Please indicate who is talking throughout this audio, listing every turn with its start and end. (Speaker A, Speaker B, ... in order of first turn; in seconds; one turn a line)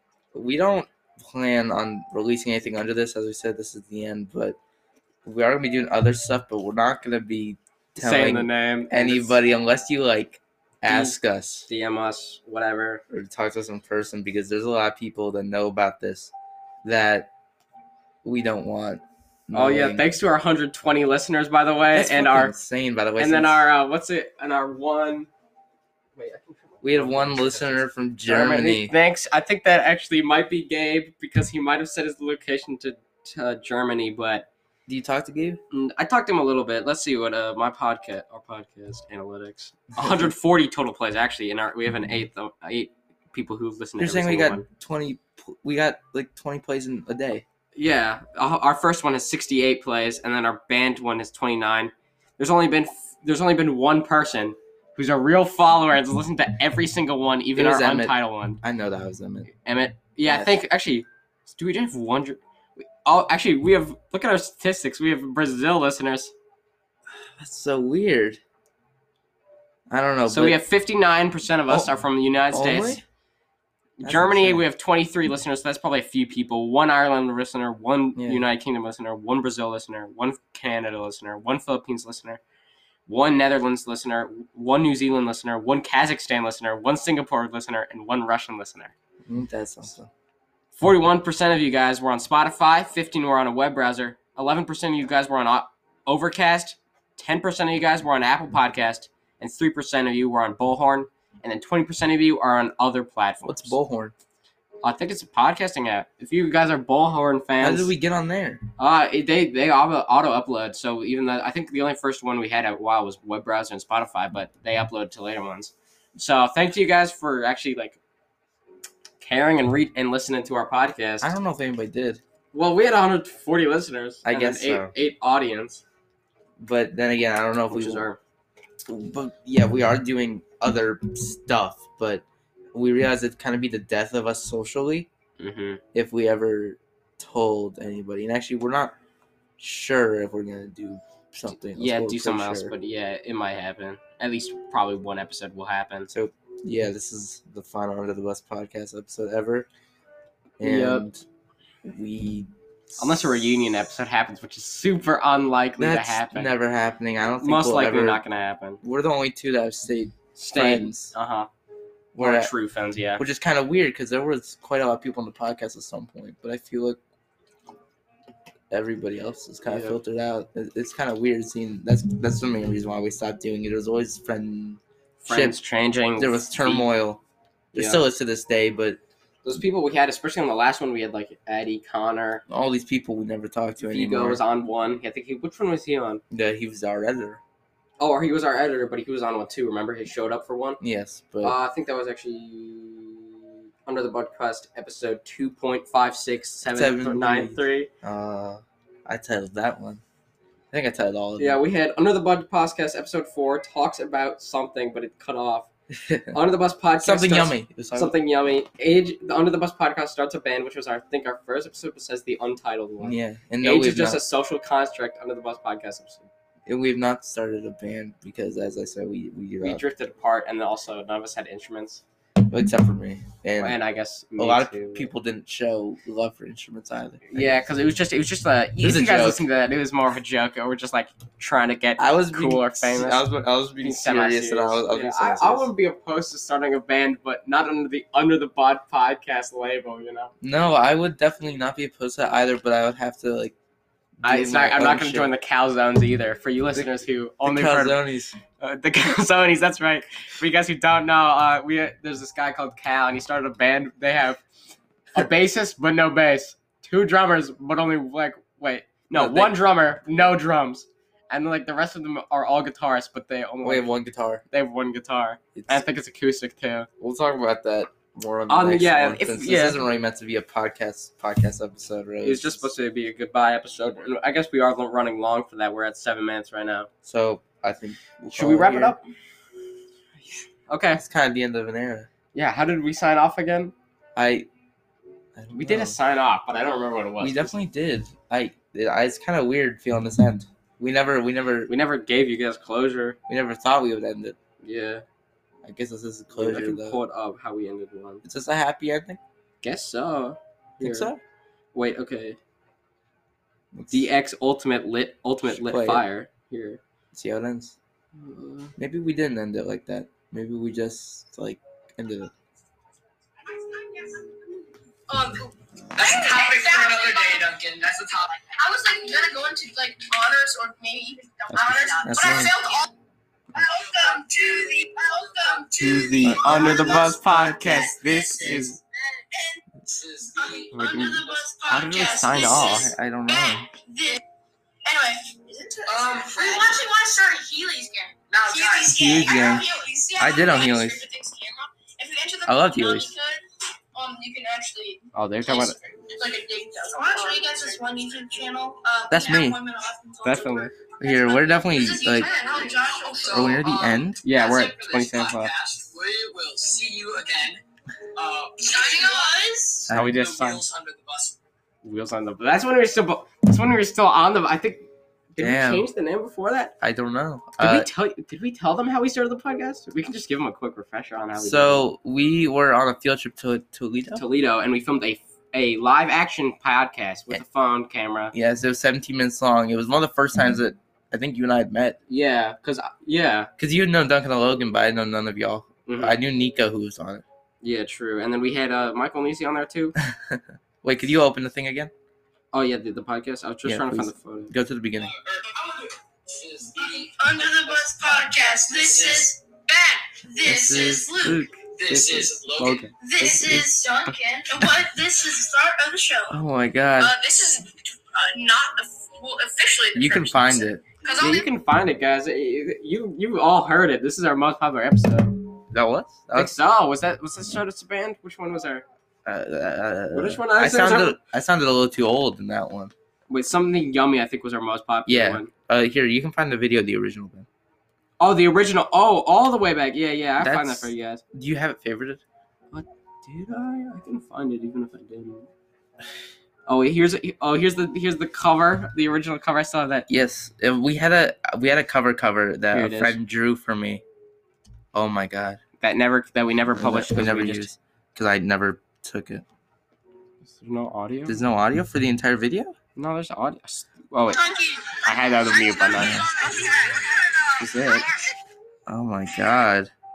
Speaker A: 0.3-4.6
Speaker A: 5.2-11.7
Speaker B: 8.0-9.4
Speaker B: 10.9-11.2
Speaker B: 11.7-13.0
Speaker A: 13.1-16.3
Speaker A: 16.8-17.3
Speaker A: 18.2-20.1
Speaker B: 19.5-22.6
Speaker A: 21.9-23.7
Speaker B: 23.2-25.3
Speaker B: 26.1-34.5
Speaker A: 26.8-28.9
Speaker A: 34.9-35.6
Speaker B: 35.7-44.6
Speaker A: 40.0-40.3
Speaker A: 44.0-47.4
Speaker B: 47.8-58.6
Speaker A: 57.5-59.5
Speaker B: 59.5-66.3
Speaker A: 60.2-60.6
Speaker A: 67.2-68.4
Speaker A: 69.9-70.6
Speaker B: 70.2-73.0
Speaker A: 71.7-73.0
Speaker B: 74.0-82.4
Speaker A: 74.0-74.6
Speaker A: 78.2-78.5
Speaker B: 83.0-88.9
Speaker A: 89.3-90.1
Speaker B: 90.8-103.8
Speaker A: 103.4-104.1
Speaker B: 104.8-107.9
Speaker A: 107.6-108.6
Speaker B: 108.8-118.0
Speaker B: 119.2-121.3
Speaker A: 121.2-122.2
Speaker B: 122.5-125.8
Speaker A: 124.2-124.9
Speaker A: 126.6-128.1
Speaker B: 127.7-128.2
Speaker A: 128.8-135.1
Speaker B: 135.4-135.8
Speaker A: 135.9-138.9
Speaker A: 139.6-142.7
Speaker B: 141.5-146.1
Speaker A: 146.1-149.7
Speaker A: 150.6-151.2
Speaker B: 150.6-151.1
Speaker A: 151.8-153.3
Speaker B: 153.0-156.5
Speaker A: 155.8-158.2
Speaker B: 157.4-158.8
Speaker A: 158.8-161.1
Speaker B: 160.3-161.5
Speaker A: 162.1-162.5
Speaker B: 162.2-163.2
Speaker A: 163.2-167.0
Speaker A: 168.7-175.6
Speaker B: 169.6-170.0
Speaker B: 175.2-176.8
Speaker A: 176.2-177.2
Speaker B: 177.7-178.0
Speaker A: 177.7-179.0
Speaker B: 179.4-182.4
Speaker A: 182.5-184.4
Speaker B: 183.8-186.2
Speaker A: 186.3-187.4
Speaker B: 188.0-190.8
Speaker A: 190.8-191.6
Speaker B: 191.4-197.9
Speaker A: 196.6-200.0
Speaker A: 200.7-201.6
Speaker B: 201.4-205.7
Speaker A: 205.9-206.4
Speaker B: 206.3-216.3
Speaker A: 207.0-208.1
Speaker A: 213.0-214.2
Speaker A: 216.7-219.8
Speaker B: 219.6-222.0
Speaker A: 222.5-223.8
Speaker B: 223.6-225.1
Speaker A: 224.4-227.6
Speaker B: 227.3-233.2
Speaker A: 228.8-229.4
Speaker A: 232.0-235.7
Speaker B: 233.8-240.3
Speaker A: 240.4-243.5
Speaker A: 244.2-245.3
Speaker B: 244.2-248.0
Speaker A: 247.4-248.3
Speaker B: 248.6-254.4
Speaker B: 255.1-263.9
Speaker A: 259.1-259.6
Speaker A: 263.6-264.4
Speaker B: 264.5-266.9
Speaker A: 265.5-265.8
Speaker A: 267.0-272.6
Speaker B: 268.5-269.8
Speaker B: 272.2-276.9
Speaker A: 277.0-279.0
Speaker B: 278.3-279.0
Speaker B: 280.3-281.0
Speaker A: 281.0-282.1
Speaker B: 282.3-283.7
Speaker A: 284.1-284.5
Speaker A: 285.4-286.0
Speaker B: 285.5-287.6
Speaker A: 287.2-291.7
Speaker B: 291.7-293.2
Speaker A: 293.3-294.4
Speaker B: 294.6-295.0
Speaker A: 295.6-297.0
Speaker B: 296.3-298.2
Speaker A: 298.2-299.2
Speaker B: 299.6-301.1
Speaker A: 300.8-301.2
Speaker B: 301.7-302.4
Speaker A: 303.7-304.1
Speaker B: 303.9-306.8
Speaker A: 305.5-306.0
Speaker A: 307.1-307.8
Speaker B: 308.1-308.7
Speaker A: 308.8-312.3
Speaker C: 313.5-314.4
Speaker C: 315.1-317.5
Speaker D: 315.9-318.5
Speaker C: 318.5-322.9
Speaker B: 321.5-321.9
Speaker A: 322.0-322.6
Speaker C: 323.5-328.5
Speaker D: 323.7-328.8
Speaker B: 325.8-328.8
Speaker A: 326.2-327.1
Speaker D: 329.8-331.4
Speaker C: 330.4-334.2
Speaker B: 330.7-332.9
Speaker A: 332.4-333.7
Speaker C: 334.8-353.7
Speaker D: 335.9-336.9
Speaker D: 338.3-339.1
Speaker A: 338.9-341.0
Speaker A: 342.5-343.1
Speaker B: 345.1-345.8
Speaker A: 349.1-349.6
Speaker B: 350.2-350.7
Speaker A: 351.0-352.3
Speaker D: 352.2-357.6
Speaker A: 353.3-354.2
Speaker B: 354.2-355.5
Speaker D: 358.1-359.4
Speaker C: 358.6-359.9
Speaker A: 359.9-360.2
Speaker B: 359.9-360.6
Speaker D: 360.1-361.4
Speaker B: 361.8-366.7
Speaker A: 365.4-365.9
Speaker A: 366.8-367.9
Speaker B: 367.6-371.9
Speaker A: 371.4-374.2
Speaker B: 374.1-378.3
Speaker A: 378.3-382.0
Speaker B: 382.1-383.5
Speaker A: 383.6-387.2
Speaker B: 385.9-386.2
Speaker B: 387.6-389.9
Speaker A: 390.0-391.9
Speaker B: 392.5-394.5
Speaker A: 393.6-395.1
Speaker D: 395.0-399.3
Speaker C: 396.7-401.5
Speaker A: 400.4-402.1
Speaker D: 401.7-402.9
Speaker B: 401.9-402.9
Speaker C: 403.0-406.4
Speaker A: 403.2-403.6
Speaker A: 406.3-407.2
Speaker C: 407.0-411.5
Speaker A: 409.9-410.8
Speaker B: 411.2-415.4
Speaker A: 415.7-416.5
Speaker B: 416.3-418.8
Speaker A: 419.2-422.9
Speaker B: 420.1-421.1
Speaker B: 423.3-425.5
Speaker A: 425.1-427.5
Speaker B: 428.2-431.2
Speaker A: 430.4-432.2
Speaker B: 432.7-435.5
Speaker B: 436.7-440.1
Speaker A: 440.1-444.0
Speaker B: 442.7-443.2
Speaker A: 444.9-445.6
Speaker B: 445.8-447.7
Speaker A: 446.8-449.4
Speaker B: 450.5-451.4
Speaker A: 451.2-452.7
Speaker B: 452.9-454.5
Speaker C: 454.3-457.4
Speaker B: 455.0-456.3
Speaker A: 455.9-456.4
Speaker B: 457.6-458.1
Speaker A: 458.9-459.9